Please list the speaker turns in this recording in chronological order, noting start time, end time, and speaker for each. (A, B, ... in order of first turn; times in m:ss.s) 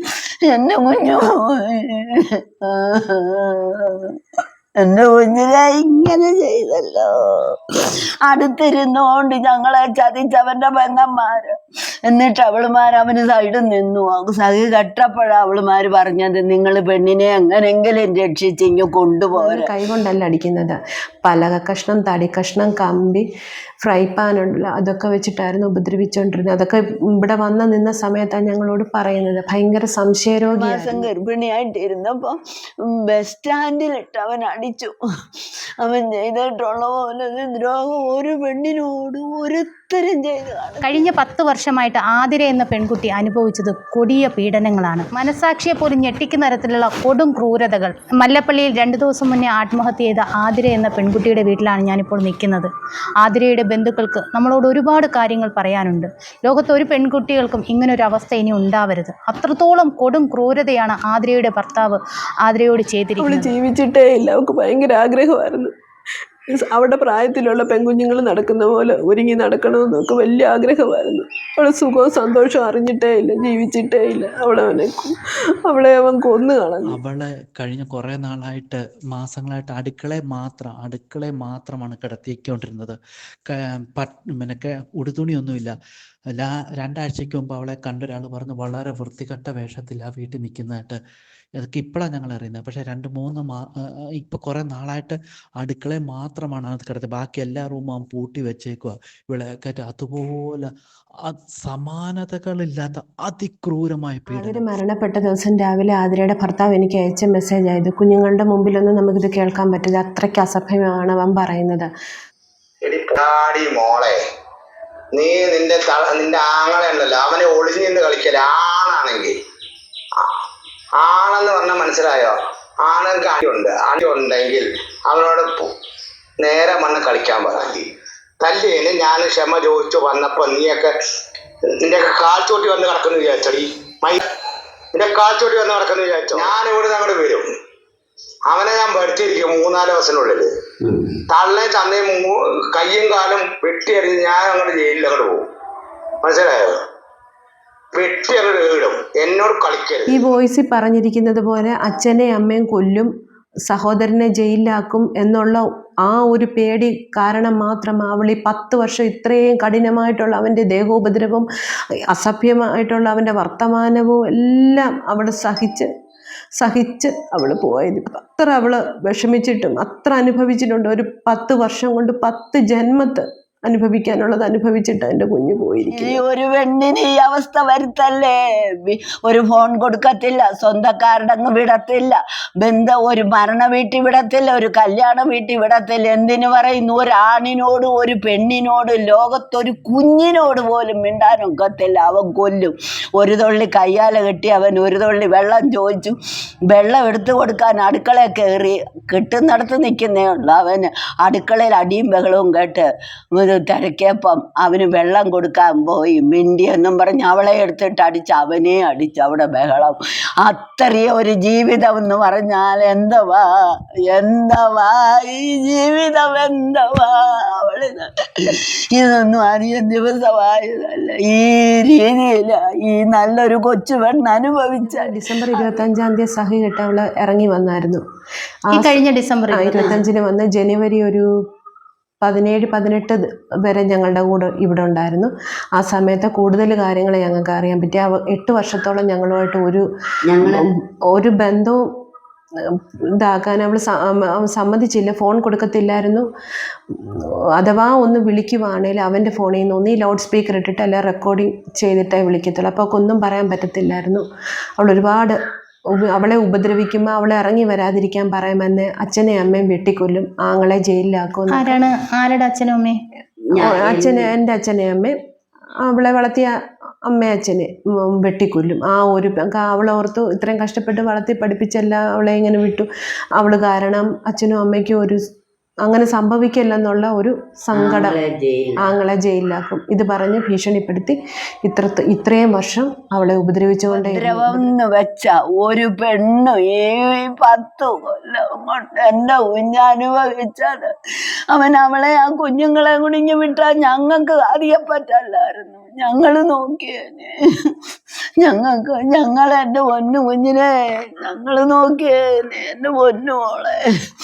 0:00.4-0:04.0 A
0:04.8-0:07.5 A
0:08.2-0:11.5 A
0:12.1-0:19.7 A
0:19.3-0:23.2 B
0:23.8-0:31.0 B
0:30.6-0:32.4 A
0:32.9-0:34.9 A
0:35.8-0:41.1 A
0:40.8-0:52.7 C
0:53.2-1:03.5 C
1:03.2-1:05.7 B
1:06.5-1:15.1 B
1:15.7-1:17.0 B
1:16.8-1:23.0 D
1:23.5-1:25.7 D
1:26.3-1:31.0 D
1:31.6-1:33.6 D
1:34.2-1:40.7 D
1:41.3-1:44.6 D
1:44.3-1:51.9 B
1:52.8-1:54.2 E
1:55.1-1:59.3 E
2:01.0-2:05.7 E
2:06.4-2:07.9 E
2:08.4-2:10.9 E
2:11.8-2:14.2 E
2:14.9-2:17.5 E
2:18.5-2:20.5 E
2:21.3-2:25.4 E
2:26.2-2:26.8 E
2:27.9-2:30.2 E
2:30.1-2:33.1 B
2:33.7-2:41.4 B
2:42.1-2:45.9 B
2:46.6-2:56.2 B
2:55.9-3:16.1 A
3:16.7-3:33.4 A
3:34.0-3:45.1 A
3:44.8-3:48.0 B
3:48.7-3:49.0 B
3:48.7-3:50.0 C
3:49.5-3:51.2 B
3:52.2-3:59.8 B
4:00.3-4:00.7 A
4:00.4-4:01.8 B
4:02.7-4:06.2 B
4:07.6-4:14.2 B
4:14.8-4:15.4 B
4:16.0-4:21.8 B
4:21.5-4:23.0 C
4:23.5-4:24.3 A
4:23.5-4:25.1 B
4:25.8-4:26.5 B
4:27.1-4:35.2 B
4:35.8-4:38.2 B
4:37.7-4:38.9 A
4:38.8-4:44.7 B
4:43.9-4:50.9 A
4:51.5-4:57.3 A
4:58.4-5:03.8 A